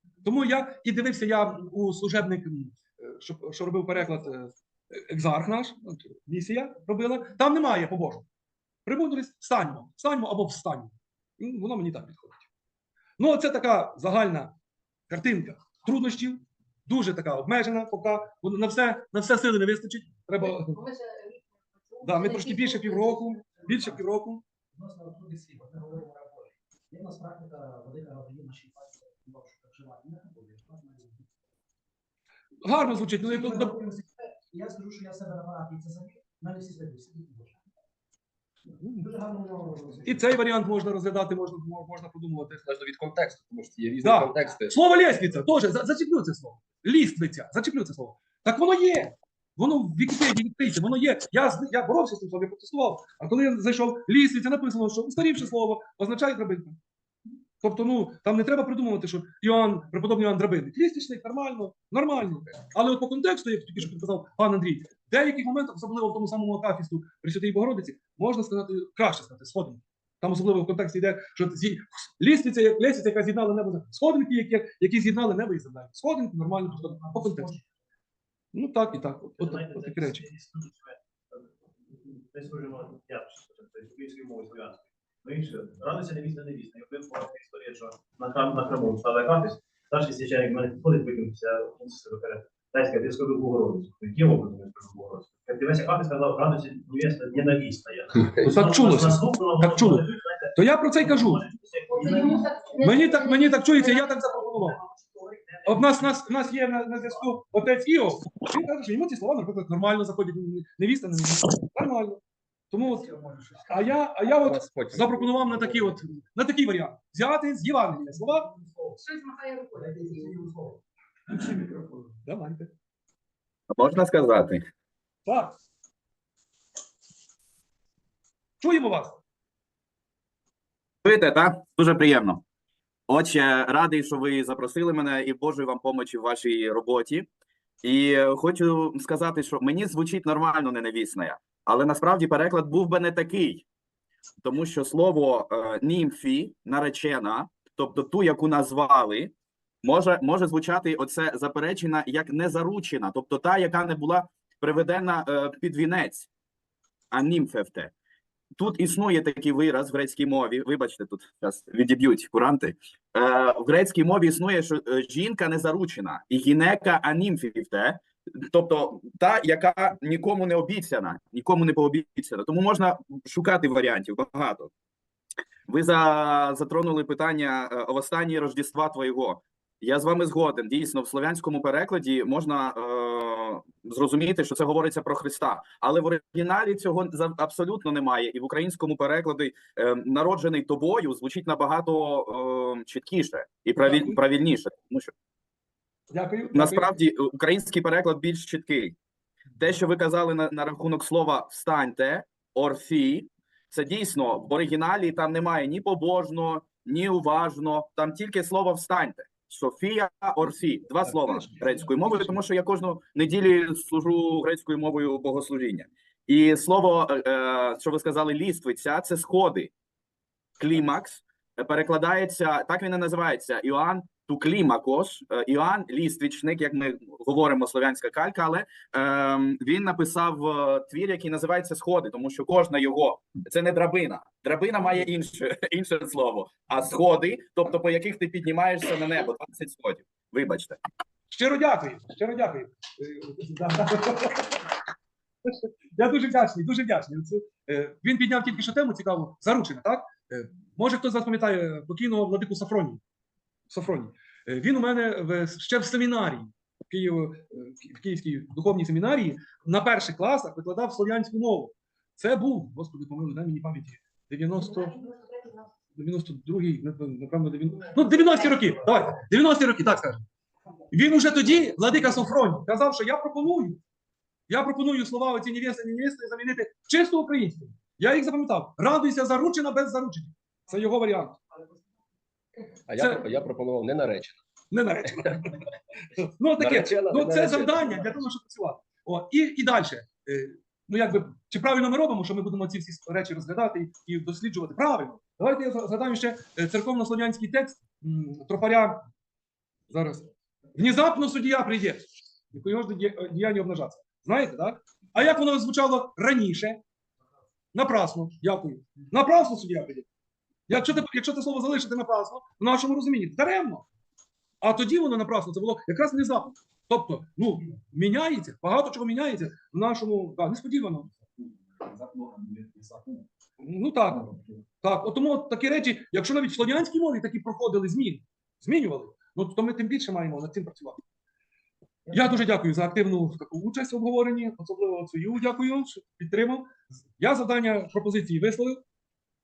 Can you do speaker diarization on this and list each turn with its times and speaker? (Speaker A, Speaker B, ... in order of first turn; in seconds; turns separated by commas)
Speaker A: 0.2-8.2, Speaker A: 8.8-12.5, Speaker A: 13.2-14.5, Speaker A: 15.1-20.8, Speaker B: 20.4-23.4, Speaker A: 22.0-24.4, Speaker C: 24.7-31.2, Speaker A: 32.6-33.9, Speaker C: 33.4-37.5, Speaker A: 38.8-39.1, Speaker C: 39.0-40.1, Speaker A: 40.0-42.6, Speaker D: 42.6-44.8, Speaker A: 44.0-56.8, Speaker A: 57.6-77.6, Speaker A: 78.5-80.2, Speaker E: 79.4-81.5, Speaker E: 82.1-102.6, Speaker A: 98.4-101.4, Speaker B: 101.9-104.3, Speaker A: 102.8-104.8, Speaker E: 105.3-106.0, Speaker A: 105.6-113.1, Speaker C: 113.1-113.6, Speaker A: 113.7-118.5, Speaker D: 114.3-116.0, Speaker C: 118.5-118.9, Speaker B: 119.0-120.4, Speaker C: 119.8-120.8, Speaker A: 122.2-122.7, Speaker F: 123.7-124.7, Speaker A: 125.2-125.5, Speaker A: 128.6-129.2, Speaker F: 131.0-132.4, Speaker F: 133.1-137.3, Speaker F: 137.8-143.6, Speaker F: 144.4-156.3, Speaker F: 157.1-157.9, Speaker F: 158.6-174.7, Speaker F: 175.7-195.1, Speaker A: 193.8-194.2, Speaker A: 196.1-196.9, Speaker F: 196.5-198.9, Speaker F: 199.6-219.7, Speaker F: 220.6-240.8, Speaker A: 241.3-244.6, Speaker A: 245.4-253.0, Speaker A: 253.7-265.1, Speaker B: 264.9-265.6, Speaker A: 265.9-270.2, Speaker A: 270.9-273.8, Speaker A: 274.5-281.4, Speaker D: 282.9-284.4, Speaker A: 284.7-285.6, Speaker A: 286.2-299.0, Speaker D: 286.6-288.1, Speaker A: 299.9-306.8, Speaker A: 307.7-310.1, Speaker A: 310.7-313.9, Speaker A: 314.6-321.1, Speaker A: 323.6-331.0, Speaker A: 332.1-338.8